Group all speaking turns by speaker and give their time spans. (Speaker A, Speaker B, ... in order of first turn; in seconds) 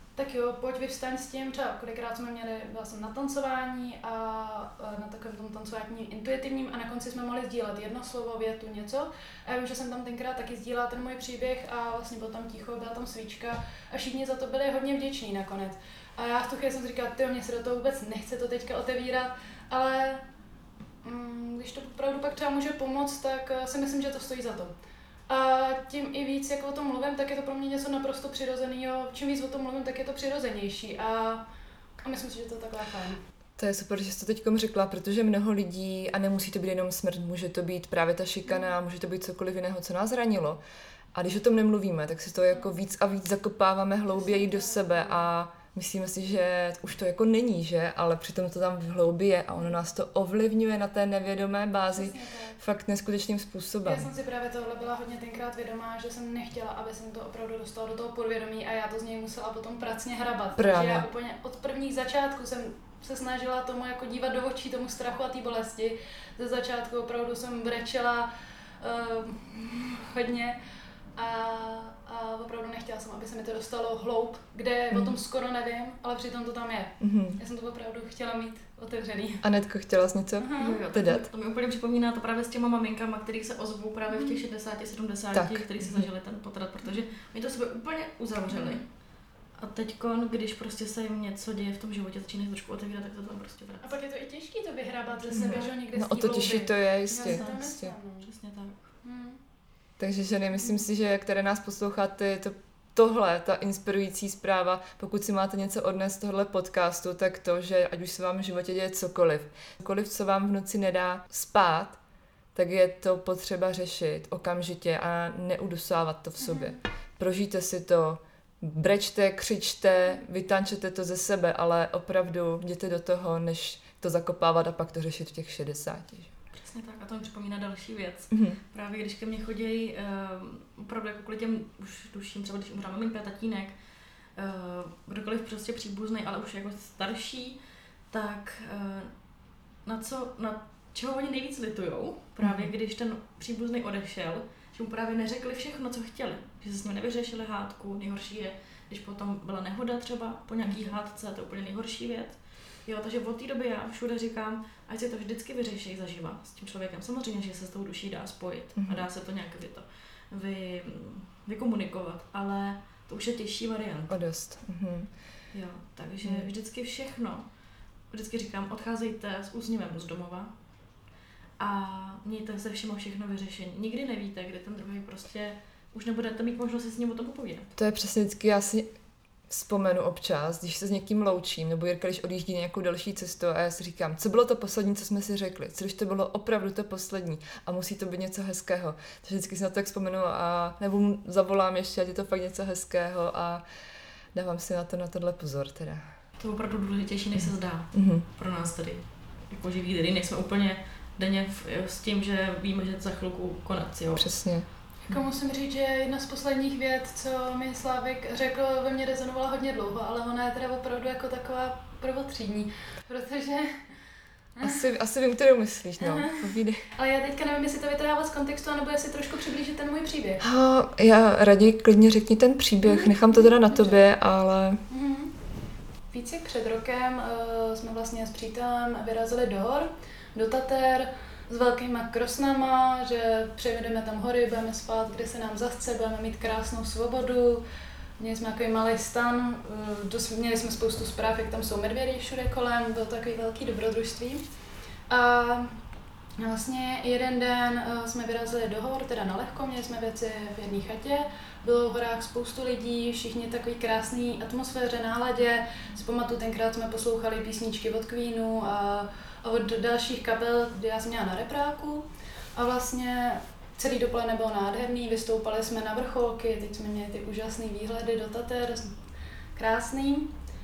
Speaker A: 0.1-20.2, 21.0-24.7, 25.3-31.4, 32.0-33.2, 44.1-45.2, 51.9-52.6, 53.8-68.3, 68.8-70.6, 71.2-79.4, 80.4-80.8, 84.1-84.4, 93.8-98.3, 99.0-99.4, 116.4-116.8, 205.1-213.9, 216.0-216.4, 216.9-220.4, 222.9-224.0, 224.9-225.3, 226.1-237.6, 238.2-244.4, 245.1-245.7, 246.4-268.9, 269.5-270.3
Speaker B: 33.6-40.6, 41.1-54.1, 60.5-61.0, 74.9-75.2, 77.0-77.4, 79.4-81.3, 85.3-86.0, 95.3-97.9, 100.0-112.0, 112.5-126.3, 128.3-128.6, 142.4-142.7, 158.8-159.0, 164.1-165.1, 177.8-178.9, 179.5-193.6, 194.3-196.1, 197.9-198.2, 204.1-204.7, 214.6-216.8, 220.4-224.8
Speaker C: 80.6-88.9, 89.6-93.9, 95.3-95.7, 97.2-98.9, 126.5-133.8, 134.3-137.6, 138.1-139.1, 139.8-164.2, 165.5-167.5, 168.1-170.5, 171.6-177.7, 196.4-204.3